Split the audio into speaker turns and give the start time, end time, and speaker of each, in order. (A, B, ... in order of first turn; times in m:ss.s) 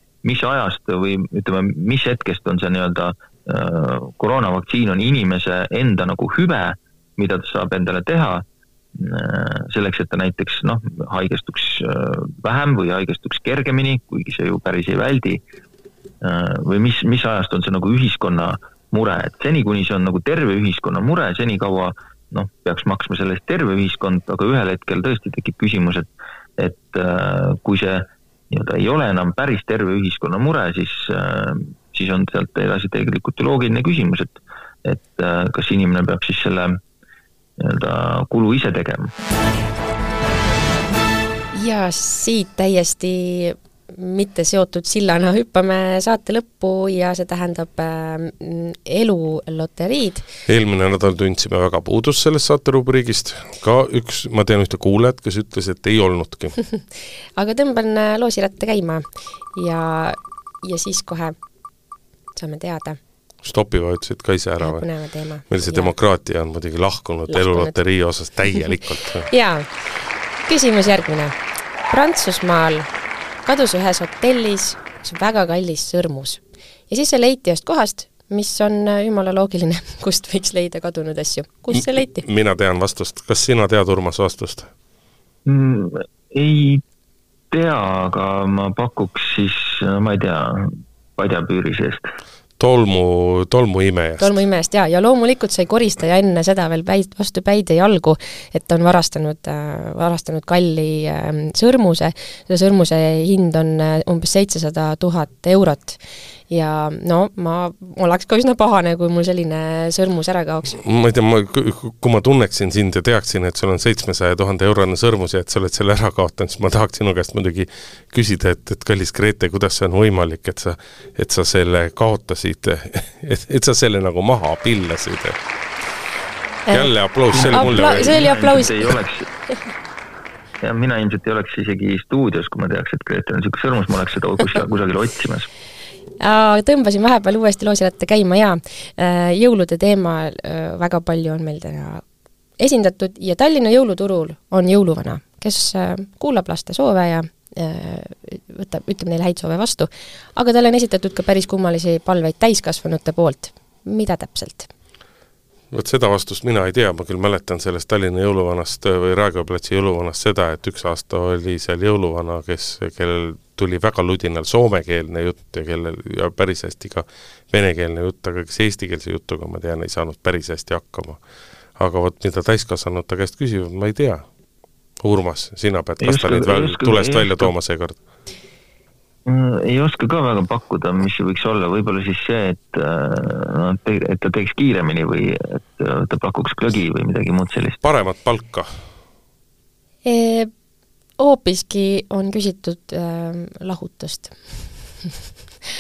0:00.2-0:08.4 A
0:09.0-0:15.4 A
0:16.2-0:26.0 A
0:26.6-0:36.8 A
0:37.6-0:39.1 A
0:41.5-0:50.2 B
0:50.5-0:56.6 C
0:57.4-1:01.4 B
1:02.4-1:03.0 B
1:03.4-1:04.9 C
1:04.6-1:05.9 B
1:05.5-1:09.3 C
1:07.3-1:07.8 B
1:09.2-1:09.7 B
1:10.4-1:11.3 B
1:11.9-1:12.9 B
1:13.4-1:22.2 B
1:21.7-1:24.7 C
1:25.4-1:26.8 A
1:27.5-1:32.0 A
1:32.6-1:34.4 C
1:34.2-1:50.8 B
1:50.8-2:05.4 C
2:06.7-2:08.9 B
2:06.7-2:08.2 C
2:07.3-2:09.3 A
2:10.6-2:15.5 A
2:16.2-2:22.0 B
2:22.6-2:34.7 B
2:35.7-2:51.2 C
2:51.8-2:54.2 C
2:55.0-2:58.0 C
2:56.0-2:57.5 A
2:59.2-3:07.8 A
3:07.8-3:08.7 C
3:10.0-3:10.5 B
3:11.2-3:14.4 B